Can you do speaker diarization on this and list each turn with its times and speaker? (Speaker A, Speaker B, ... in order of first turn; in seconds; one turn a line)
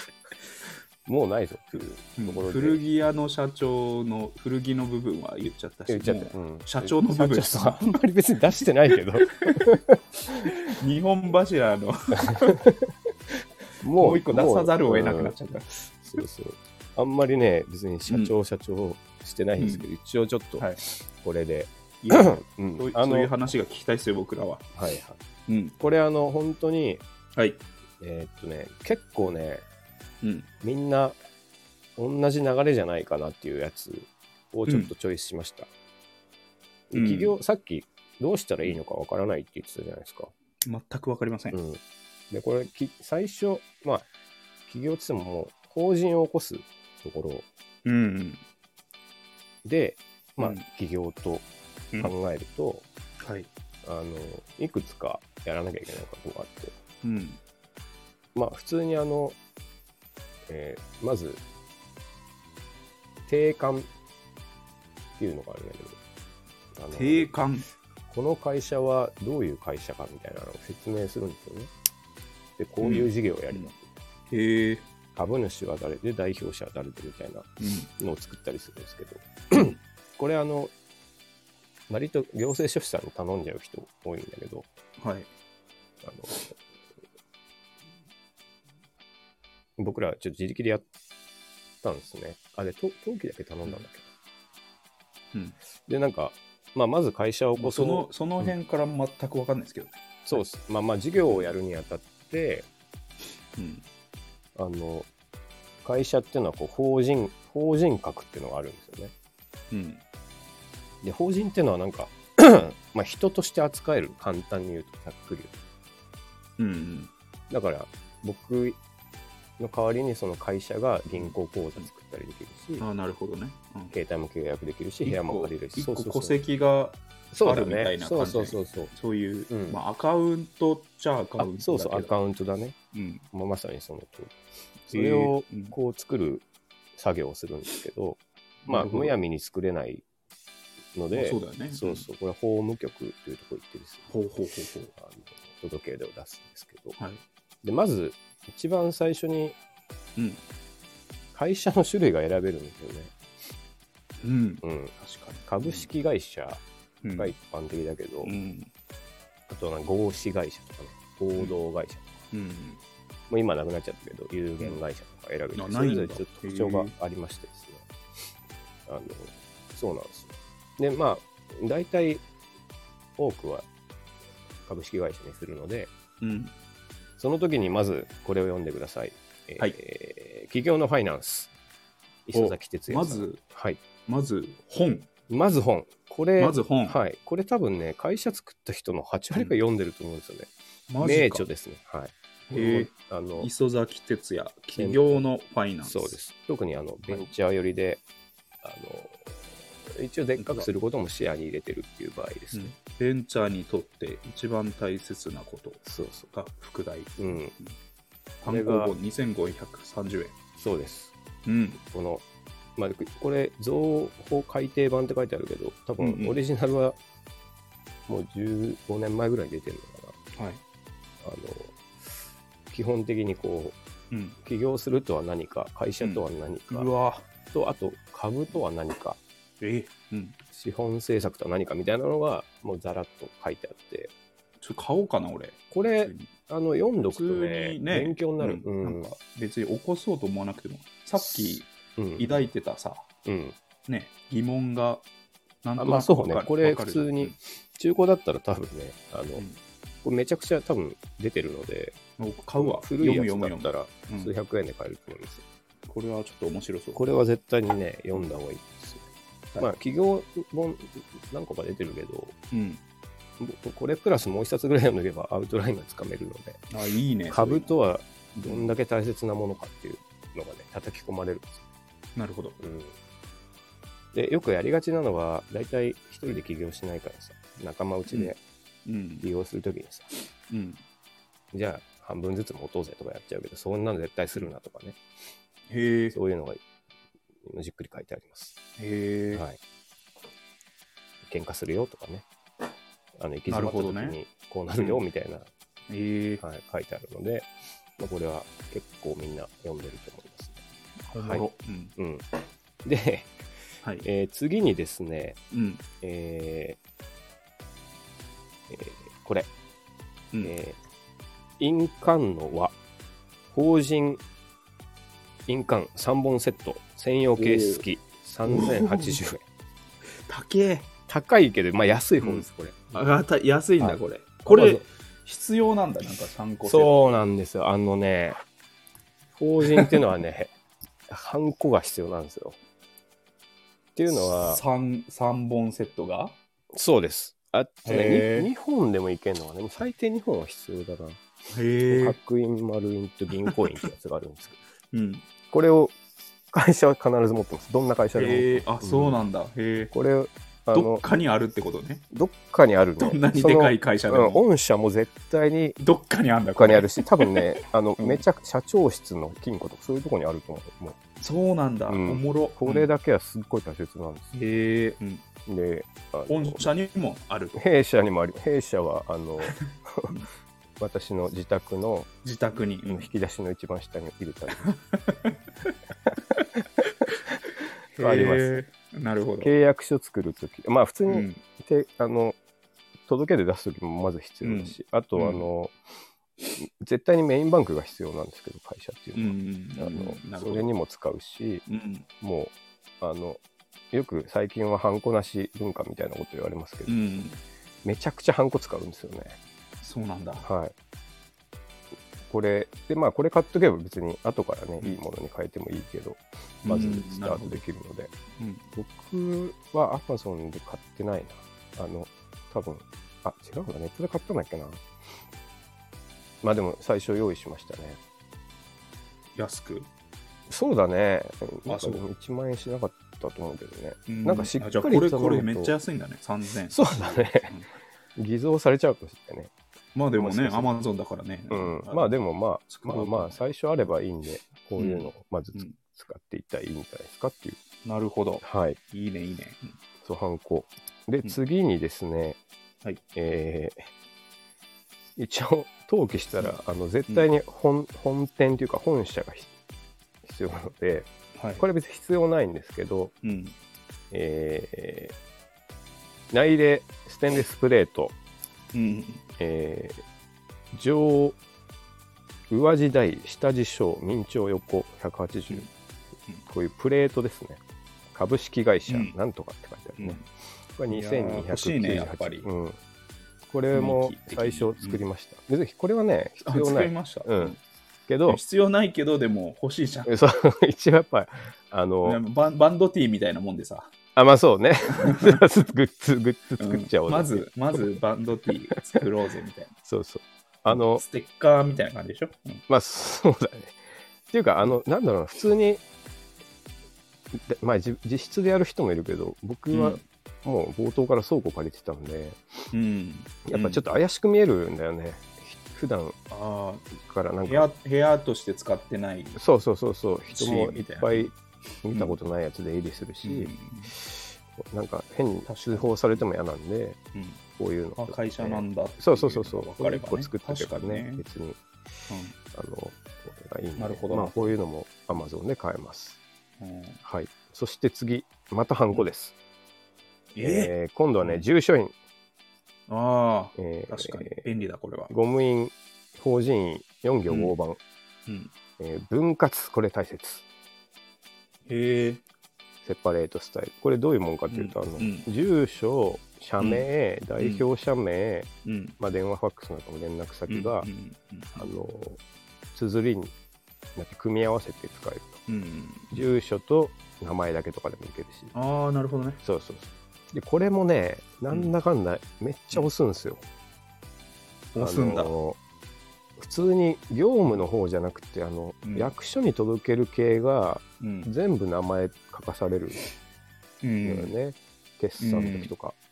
Speaker A: 1.1-2.8
Speaker B: 2.2-7.9
Speaker A: 5.9-10.5
Speaker B: 8.9-9.7
Speaker B: 10.3-12.6
Speaker A: 12.3-12.9
Speaker A: 13.8-23.3
Speaker B: 14.0-15.8
Speaker B: 18.1-18.3
Speaker B: 19.6-19.9
Speaker B: 22.0-24.7
Speaker A: 24.8-25.2
Speaker B: 25.5-25.8
Speaker A: 25.8-27.0
Speaker B: 27.4-27.6
Speaker A: 28.0-29.6
Speaker B: 30.2-30.5
Speaker A: 30.6-31.2
Speaker A: 32.0-35.7
Speaker B: 34.7-34.9
Speaker A: 36.9-40.3
Speaker B: 36.9-37.4
Speaker B: 40.6-41.6
Speaker A: 41.5-44.1
Speaker A: 44.7-47.5
Speaker B: 47.9-48.4
Speaker A: 49.6-51.5
Speaker A: 52.0-52.9
Speaker B: 53.2-53.5
Speaker A: 53.9-56.8
Speaker B: 57.0-57.4
Speaker A: 58.4-59.4
Speaker A: 60.5-61.4
Speaker A: 63.3-63.9
Speaker A: 65.2-66.0
Speaker A: 66.8-67.3
Speaker B: 66.9-67.7
Speaker A: 68.1-71.7
Speaker A: 72.6-74.0
Speaker B: 72.8-73.7
Speaker B: 74.3-74.8
Speaker A: 75.2-80.7
Speaker B: 77.6-77.9
Speaker A: 81.9-84.7
Speaker B: 85.0-85.3
Speaker A: 86.0-86.5
Speaker A: 89.8-90.9
Speaker A: 91.8-94.1
Speaker A: 95.9-98.5
Speaker B: 97.6-100.5
Speaker A: 100.2-102.7
Speaker B: 101.2-101.5
Speaker B: 103.6-103.8
Speaker A: 104.6-105.1
Speaker A: 105.8-109.1
Speaker B: 109.7-110.0
Speaker A: 111.0-115.6
Speaker B: 116.6-117.1
Speaker A: 117.5-118.8
Speaker A: 119.6-122.8
Speaker B: 121.2-121.9
Speaker B: 122.8-123.9
Speaker A: 123.9-126.4
Speaker B: 125.0-132.1
Speaker A: 127.3-128.9
Speaker A: 129.5-129.8
Speaker A: 131.4-132.8
Speaker B: 132.9-133.2
Speaker A: 133.3-134.4
Speaker B: 134.9-135.7
Speaker A: 134.9-136.4
Speaker A: 137.0-140.0
Speaker B: 138.7-139.2
Speaker A: 140.9-144.1
Speaker B: 141.1-142.1
Speaker B: 144.1-144.9
Speaker A: 145.0-147.0
Speaker A: 147.6-149.6
Speaker B: 150.2-150.4
Speaker A: 151.3-153.1
Speaker B: 154.2-155.9
Speaker A: 154.6-154.9
Speaker A: 155.5-156.6
Speaker B: 157.0-157.3
Speaker A: 157.2-158.4
Speaker B: 158.2-158.7
Speaker A: 159.5-162.2
Speaker B: 162.3-162.8
Speaker A: 163.3-167.9
Speaker B: 165.6-166.9
Speaker A: 168.9-172.2
Speaker A: 173.2-173.7
Speaker A: 174.7-175.9
Speaker B: 176.2-176.5
Speaker A: 177.2-181.5
Speaker A: 182.3-183.8
Speaker B: 182.3-183.4
Speaker B: 184.1-185.1
Speaker A: 185.3-190.5
Speaker B: 186.4-187.0
Speaker B: 190.9-191.5
Speaker A: 191.0-193.5
Speaker B: 192.5-196.2
Speaker A: 194.8-195.2
Speaker A: 195.8-198.0
Speaker A: 198.6-199.3
Speaker A: 199.9-202.8
Speaker B: 200.4-200.7
Speaker B: 202.5-207.8
Speaker A: 205.8-206.3
Speaker A: 207.2-207.5
Speaker B: 208.4-210.3
Speaker A: 208.5-208.9
Speaker A: 210.6-211.1
Speaker B: 211.5-211.8
Speaker A: 211.8-212.2
Speaker A: 212.8-217.0
Speaker B: 216.0-216.4
Speaker A: 218.1-220.2
Speaker B: 220.3-220.6
Speaker A: 221.2-221.8
Speaker A: 222.7-223.8
Speaker B: 224.1-224.4
Speaker A: 224.4-226.9
Speaker B: 226.0-227.3
Speaker A: 227.5-229.2
Speaker B: 229.6-230.4
Speaker A: 230.5-234.1
Speaker B: 234.6-236.3
Speaker A: 235.7-239.1
Speaker B: 237.0-243.1
Speaker A: 241.2-242.4
Speaker A: 243.2-243.6
Speaker B: 243.9-245.1
Speaker B: 245.6-247.4
Speaker A: 245.8-249.5
Speaker A: 250.0-252.0
Speaker B: 252.2-254.3
Speaker A: 252.6-255.4
Speaker B: 255.9-257.0
Speaker A: 256.9-262.4
Speaker B: 262.5-262.8
Speaker A: 263.4-266.7
Speaker B: 266.7-267.8
Speaker A: 267.3-271.6
Speaker B: 268.4-268.8
Speaker B: 272.2-272.6
Speaker A: 272.6-272.9
Speaker A: 274.1-278.4
Speaker B: 278.1-278.3
Speaker B: 278.9-279.3
Speaker A: 279.2-280.1
Speaker B: 280.5-280.8
Speaker A: 281.5-285.0
Speaker B: 285.7-286.2
Speaker A: 286.1-286.6
Speaker A: 287.4-288.6
Speaker B: 288.8-289.4
Speaker A: 289.3-289.6
Speaker A: 291.2-292.3
Speaker A: 293.2-295.5
Speaker B: 293.5-294.2
Speaker B: 295.9-296.4
Speaker A: 296.4-300.6
Speaker B: 301.1-301.9
Speaker A: 301.1-301.4
Speaker A: 302.0-302.3
Speaker A: 302.8-303.4
Speaker A: 304.0-305.4
Speaker B: 305.5-305.8
Speaker A: 306.0-306.8
Speaker A: 308.7-309.5
Speaker A: 310.4-310.8
Speaker A: 311.6-312.8
Speaker A: 313.5-314.2
Speaker A: 315.5-319.4
Speaker B: 317.4-317.8
Speaker B: 318.5-319.2
Speaker B: 320.3-320.9
Speaker A: 321.1-322.9
Speaker B: 322.2-326.9
Speaker A: 323.8-324.8
Speaker A: 326.6-328.4
Speaker A: 329.4-330.5
Speaker A: 331.1-332.6
Speaker A: 334.0-334.6
Speaker B: 334.1-336.4
Speaker A: 336.7-341.2
Speaker B: 337.9-338.5
Speaker B: 341.5-342.2
Speaker A: 341.9-344.6
Speaker B: 343.5-343.9
Speaker B: 344.9-345.2
Speaker A: 345.5-345.9
Speaker A: 346.5-349.2
Speaker B: 348.1-349.9
Speaker A: 349.9-351.1
Speaker B: 350.7-352.0
Speaker A: 352.1-355.8
Speaker B: 353.0-354.4
Speaker B: 355.8-357.4
Speaker A: 356.6-361.0
Speaker B: 358.0-358.2
Speaker B: 361.2-362.9
Speaker A: 361.9-364.3
Speaker B: 364.3-365.2
Speaker A: 365.5-366.7
Speaker B: 366.3-367.6
Speaker A: 367.6-370.1
Speaker A: 370.8-372.1
Speaker B: 372.2-373.1
Speaker A: 372.9-374.7
Speaker B: 374.5-375.3
Speaker B: 378.0-379.5
Speaker A: 378.0-378.6
Speaker A: 379.4-382.4
Speaker B: 381.1-381.4
Speaker A: 383.1-385.8
Speaker B: 384.4-385.5
Speaker A: 386.6-391.6
Speaker B: 389.1-390.7
Speaker B: 391.7-392.1
Speaker A: 392.2-393.4
Speaker A: 393.9-397.2
Speaker B: 396.9-397.4
Speaker A: 397.8-399.4
Speaker B: 399.8-400.5
Speaker A: 400.4-400.7
Speaker A: 402.3-408.1
Speaker B: 406.6-407.6
Speaker B: 408.4-408.6
Speaker A: 408.8-414.8
Speaker A: 416.4-418.0
Speaker B: 419.4-419.9
Speaker A: 420.5-425.7
Speaker B: 421.7-422.0
Speaker B: 424.1-427.7
Speaker A: 426.7-427.5
Speaker A: 428.2-429.5
Speaker B: 429.9-432.1
Speaker A: 430.2-430.7
Speaker A: 431.5-437.6
Speaker B: 432.7-433.4
Speaker B: 434.8-435.8
Speaker B: 437.9-439.7
Speaker A: 438.4-438.8
Speaker A: 440.0-442.4
Speaker A: 443.1-443.9
Speaker A: 445.2-449.5
Speaker A: 450.2-453.1
Speaker B: 451.4-451.6
Speaker B: 453.2-453.6
Speaker A: 454.1-455.1
Speaker A: 456.3-458.1
Speaker B: 458.7-459.2
Speaker A: 459.4-460.0
Speaker A: 460.7-461.4
Speaker A: 462.5-465.7
Speaker A: 466.5-467.6
Speaker A: 468.1-472.8
Speaker B: 468.9-469.2
Speaker B: 470.0-470.2
Speaker B: 470.9-472.5
Speaker A: 473.5-477.6
Speaker B: 473.7-475.0
Speaker B: 476.4-477.6
Speaker A: 478.1-478.4
Speaker B: 478.3-480.1
Speaker A: 480.1-482.2
Speaker B: 482.1-483.9
Speaker A: 484.2-488.0
Speaker B: 485.0-485.4
Speaker B: 486.6-489.7
Speaker A: 489.9-491.0
Speaker B: 490.7-492.6
Speaker A: 492.7-493.8
Speaker A: 494.3-495.8
Speaker A: 497.3-502.4
Speaker B: 499.7-500.0
Speaker B: 502.7-503.8
Speaker A: 503.5-506.2
Speaker B: 506.3-506.9
Speaker A: 507.0-507.7
Speaker B: 507.4-509.4
Speaker A: 509.4-517.0
Speaker B: 510.3-511.3
Speaker B: 511.9-512.2
Speaker B: 513.2-513.9
Speaker B: 515.5-516.2
Speaker B: 517.1-517.4
Speaker A: 517.6-521.6
Speaker B: 518.0-521.2
Speaker B: 522.1-522.4
Speaker A: 522.4-526.2
Speaker B: 523.8-524.6
Speaker B: 526.6-527.0
Speaker A: 527.0-529.4
Speaker B: 530.3-531.5
Speaker A: 530.4-531.9
Speaker B: 532.9-535.1
Speaker A: 533.6-534.5
Speaker A: 535.1-537.8
Speaker B: 537.3-537.5
Speaker A: 538.8-540.4
Speaker B: 541.7-542.2
Speaker A: 542.8-550.9
Speaker B: 544.5-545.3
Speaker B: 546.6-546.9
Speaker B: 547.4-547.6
Speaker B: 548.6-549.0
Speaker B: 550.5-551.7
Speaker A: 551.6-552.2
Speaker A: 552.7-553.3
Speaker A: 554.0-555.4
Speaker B: 555.5-556.2
Speaker A: 556.1-558.5
Speaker B: 558.5-559.4
Speaker A: 559.4-563.4
Speaker B: 561.5-561.8
Speaker B: 564.7-565.3
Speaker A: 564.8-565.6
Speaker A: 566.4-573.0
Speaker B: 568.8-569.1
Speaker B: 571.0-571.3
Speaker B: 573.8-574.3
Speaker A: 574.0-576.0
Speaker B: 575.2-575.7